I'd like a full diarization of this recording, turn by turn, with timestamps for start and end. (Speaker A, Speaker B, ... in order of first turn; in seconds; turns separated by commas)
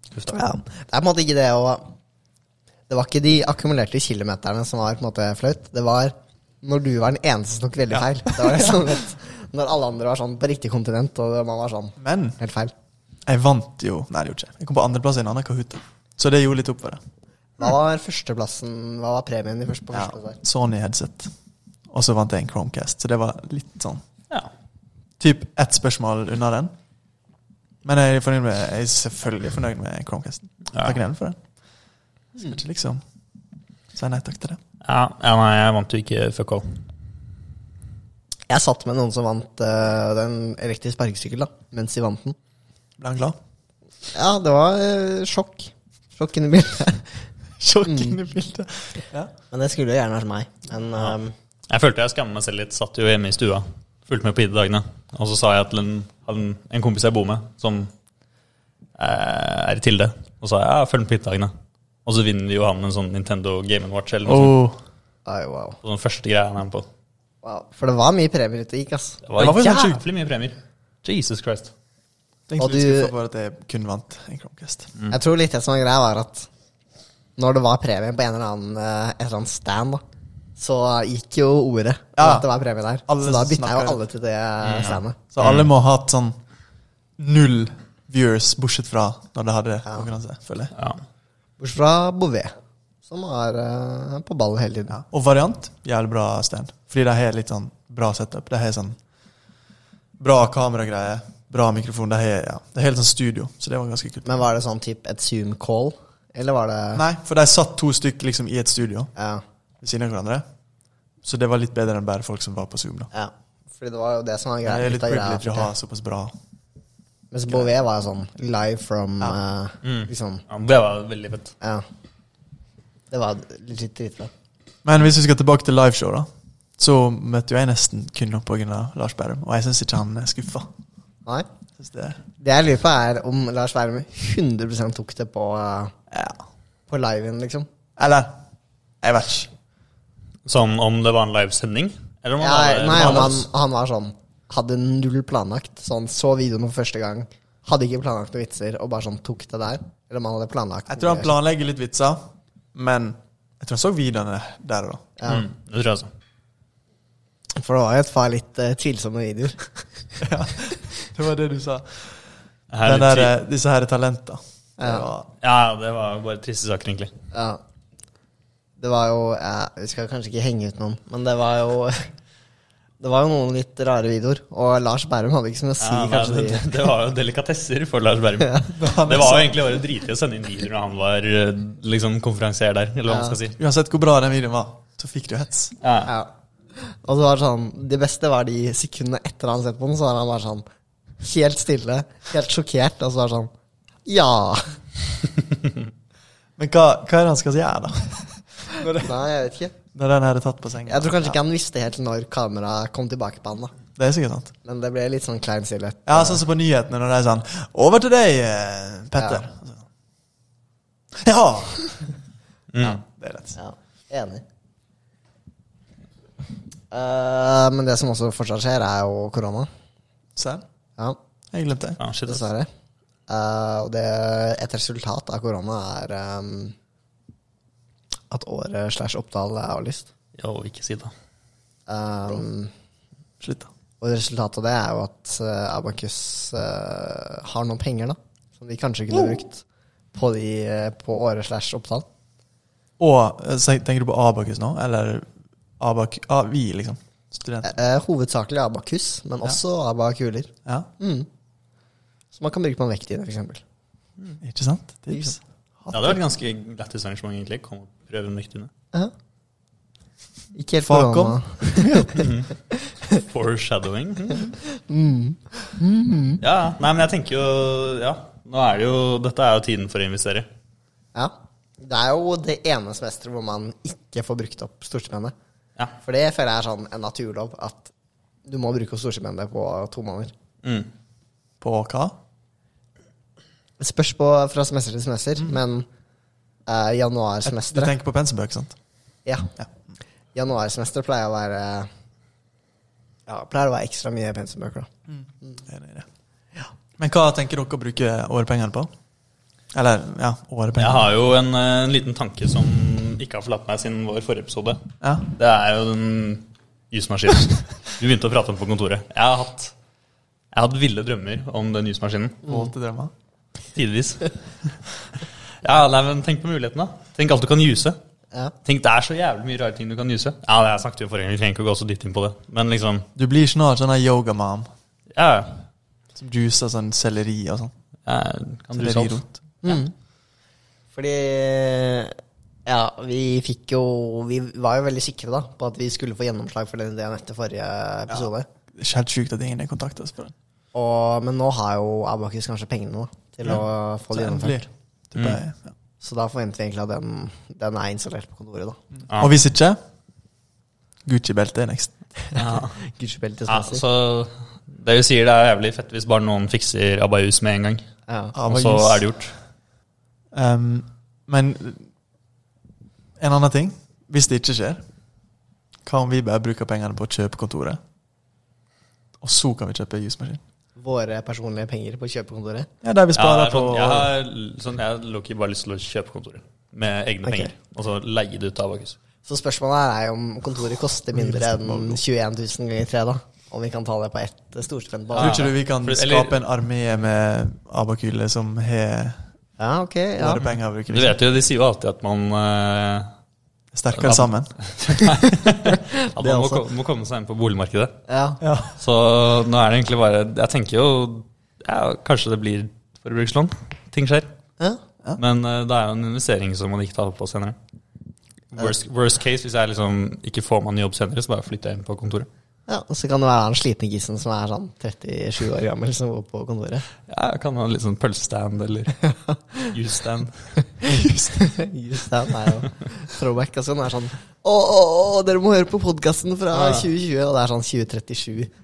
Speaker A: 0.3-1.8, Speaker A: 2.9-12.7, Speaker B: 7.9-8.8, Speaker B: 12.0-12.4, Speaker B: 13.3-17.0, Speaker A: 17.6-20.4, Speaker B: 19.9-21.3, Speaker B: 21.9-24.0, Speaker B: 25.2-26.7, Speaker B: 27.8-31.4, Speaker B: 32.4-33.0, Speaker B: 33.9-34.6, Speaker C: 34.8-36.7, Speaker A: 38.5-42.4, Speaker B: 43.0-43.4, Speaker A: 44.1-47.2, Speaker B: 47.6-49.3, Speaker A: 47.9-48.2, Speaker A: 49.5-51.3, Speaker C: 51.7-57.9, Speaker C: 59.0-61.5, Speaker C: 62.1-64.6, Speaker B: 64.3-64.8, Speaker A: 65.3-65.8, Speaker C: 65.8-66.9, Speaker A: 67.4-69.2, Speaker C: 69.2-71.7, Speaker B: 69.4-70.0, Speaker B: 72.5-74.9, Speaker A: 72.6-73.1, Speaker A: 75.1-76.5, Speaker A: 77.4-80.0, Speaker A: 80.6-85.2, Speaker B: 82.2-82.5, Speaker B: 83.1-84.0, Speaker C: 84.7-85.7, Speaker B: 85.3-86.4, Speaker B: 87.2-90.7, Speaker A: 91.6-95.0, Speaker B: 94.9-99.0, Speaker B: 100.2-104.3, Speaker A: 104.2-107.0, Speaker B: 107.0-109.1, Speaker A: 109.2-109.4, Speaker B: 109.8-110.5, Speaker B: 111.2-113.1, Speaker A: 113.1-115.7, Speaker B: 114.6-116.3, Speaker A: 117.3-120.4, Speaker C: 119.8-121.5, Speaker A: 121.6-121.9, Speaker A: 123.1-124.3, Speaker B: 124.8-130.7, Speaker B: 131.8-132.2, Speaker A: 132.4-135.9, Speaker B: 136.1-136.4, Speaker A: 136.9-137.7, Speaker B: 138.0-138.4, Speaker B: 139.0-139.5, Speaker C: 140.5-143.5, Speaker A: 142.4-151.3, Speaker B: 150.9-155.1, Speaker A: 155.2-155.5, Speaker C: 155.3-156.1, Speaker A: 157.6-159.7, Speaker B: 160.2-162.1, Speaker C: 162.7-163.3, Speaker B: 162.8-165.3, Speaker A: 164.8-165.1, Speaker C: 165.4-167.1, Speaker A: 167.3-167.6, Speaker A: 168.8-172.1, Speaker A: 173.0-176.8, Speaker C: 175.8-183.6, Speaker B: 178.8-179.7, Speaker A: 183.1-183.4, Speaker B: 183.6-185.7, Speaker C: 185.8-186.1, Speaker A: 186.1-190.7, Speaker A: 191.2-193.5, Speaker A: 194.1-194.8, Speaker B: 196.6-199.1, Speaker A: 198.8-199.7, Speaker B: 199.9-201.4, Speaker A: 200.9-203.7, Speaker B: 204.0-204.5, Speaker A: 204.7-206.4, Speaker B: 206.1-209.8, Speaker A: 209.2-209.4, Speaker B: 211.2-212.0, Speaker C: 212.7-213.0, Speaker B: 212.8-213.6, Speaker A: 213.6-214.4, Speaker A: 216.9-219.7, Speaker B: 220.4-220.7, Speaker B: 221.5-222.0, Speaker C: 222.0-222.5, Speaker A: 222.3-222.7, Speaker A: 223.3-226.8, Speaker A: 228.3-230.1, Speaker C: 230.4-231.1, Speaker A: 231.9-232.7, Speaker B: 233.4-233.7, Speaker A: 234.0-242.1, Speaker B: 243.0-245.3, Speaker B: 245.8-247.7, Speaker A: 247.6-251.3, Speaker A: 252.3-253.6, Speaker B: 254.4-256.2, Speaker C: 255.9-258.7, Speaker A: 260.6-262.3, Speaker B: 260.9-262.2, Speaker C: 262.2-262.5, Speaker A: 262.9-263.2, Speaker C: 263.1-264.5, Speaker A: 264.7-266.4, Speaker C: 266.4-270.5, Speaker A: 271.1-275.3, Speaker A: 276.0-277.9, Speaker A: 278.5-280.3, Speaker C: 280.6-280.9, Speaker B: 281.6-282.2, Speaker A: 283.8-285.9, Speaker A: 286.7-287.9, Speaker B: 287.4-288.8, Speaker A: 289.3-289.5, Speaker A: 290.4-291.9, Speaker A: 293.3-294.9, Speaker B: 295.1-296.1, Speaker B: 297.0-298.9, Speaker B: 299.7-301.1, Speaker C: 300.8-309.7, Speaker B: 305.0-305.3, Speaker C: 310.5-312.5, Speaker B: 312.5-313.1, Speaker C: 313.7-314.4, Speaker C: 315.6-318.0, Speaker C: 318.6-323.1, Speaker B: 323.2-324.7, Speaker C: 325.1-325.6, Speaker B: 326.1-327.7, Speaker C: 328.1-329.8, Speaker B: 328.8-329.3, Speaker A: 329.6-329.9, Speaker A: 330.9-338.5, Speaker B: 338.1-340.3, Speaker A: 340.7-344.6, Speaker B: 343.4-345.7, Speaker C: 345.2-345.4, Speaker A: 346.0-348.8, Speaker B: 349.1-349.8, Speaker B: 351.1-352.0, Speaker A: 352.3-353.8, Speaker C: 352.3-352.8, Speaker C: 353.5-357.9, Speaker A: 358.1-358.4, Speaker B: 358.3-359.1, Speaker C: 358.4-359.3, Speaker B: 360.3-361.9, Speaker B: 363.2-364.8, Speaker B: 365.9-367.8, Speaker B: 369.2-370.4, Speaker A: 370.8-372.7, Speaker B: 372.8-374.1, Speaker C: 373.2-379.0, Speaker A: 377.2-377.5, Speaker A: 379.3-385.5, Speaker B: 381.1-382.0, Speaker C: 385.1-386.4, Speaker B: 385.2-389.2, Speaker A: 389.6-390.4, Speaker B: 390.2-391.2, Speaker C: 390.9-393.1, Speaker B: 393.7-394.5, Speaker C: 394.0-397.9, Speaker A: 395.3-396.6, Speaker A: 398.1-398.4, Speaker B: 398.4-398.8, Speaker C: 398.8-404.3, Speaker C: 405.2-407.6, Speaker C: 408.5-412.3, Speaker A: 412.7-416.9, Speaker C: 417.1-419.0, Speaker A: 419.1-419.7, Speaker C: 419.7-420.4, Speaker A: 420.9-428.5, Speaker B: 420.9-421.5, Speaker C: 426.5-426.9